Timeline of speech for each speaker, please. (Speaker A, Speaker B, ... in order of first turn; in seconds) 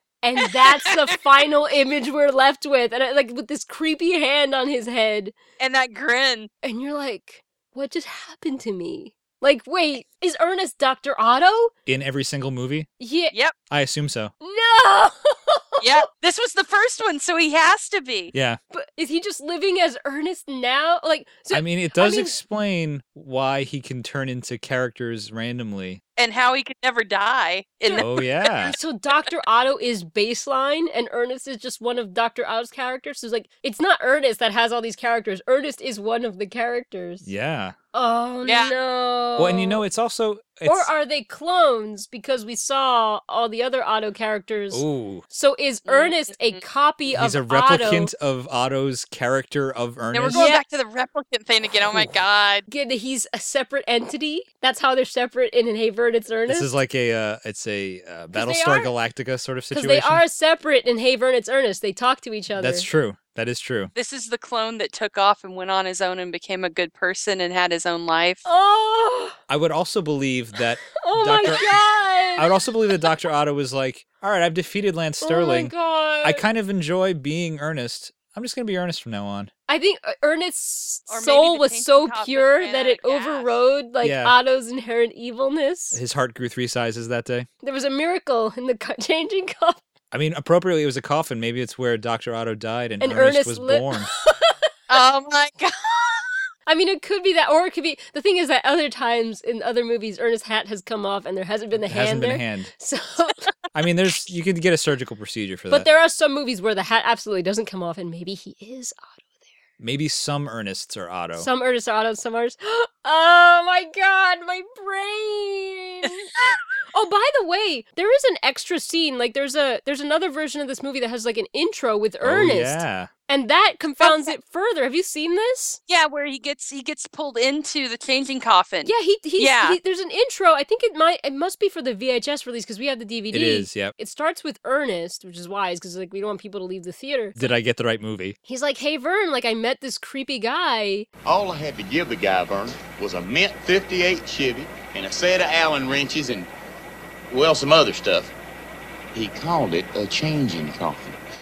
Speaker A: 0.2-5.3, 6.6-11.7, 13.0-13.3, 14.4-15.8, 18.7-22.3, 28.6-37.3, 37.9-39.8, 40.6-48.1, 50.3-50.6, 52.7-56.7, 58.3-58.9, 59.7-62.9, 68.4-69.4, 71.0-72.5, 75.2-76.4, 79.7-86.0, 87.6-89.8, 93.0-94.5, 96.7-103.4, 105.7-109.2, 111.3-116.3, 116.9-125.8, 128.8-137.3, 138.5-141.1
Speaker B: 5.6-6.5, 15.8-18.3, 26.2-28.2, 38.4-38.7, 45.9-46.6, 50.1-52.7, 63.9-68.5, 81.1-83.6, 94.9-96.4, 124.0-124.3, 125.9-129.8
Speaker C: 11.8-12.9, 13.7-14.3, 18.3-18.6, 21.5-26.0, 28.0-28.7, 37.2-37.8, 39.4-40.9, 44.7-45.2, 47.1-50.5, 56.5-60.2, 62.5-63.9, 69.5-71.8, 72.3-79.5, 84.0-84.3, 85.9-87.5, 90.1-94.1, 101.7-102.7, 103.7-105.9, 109.8-111.5, 122.2-123.1, 133.3-133.9, 137.3-138.3
Speaker D: 141.3-146.5, 147.3-148.3, 149.1-151.2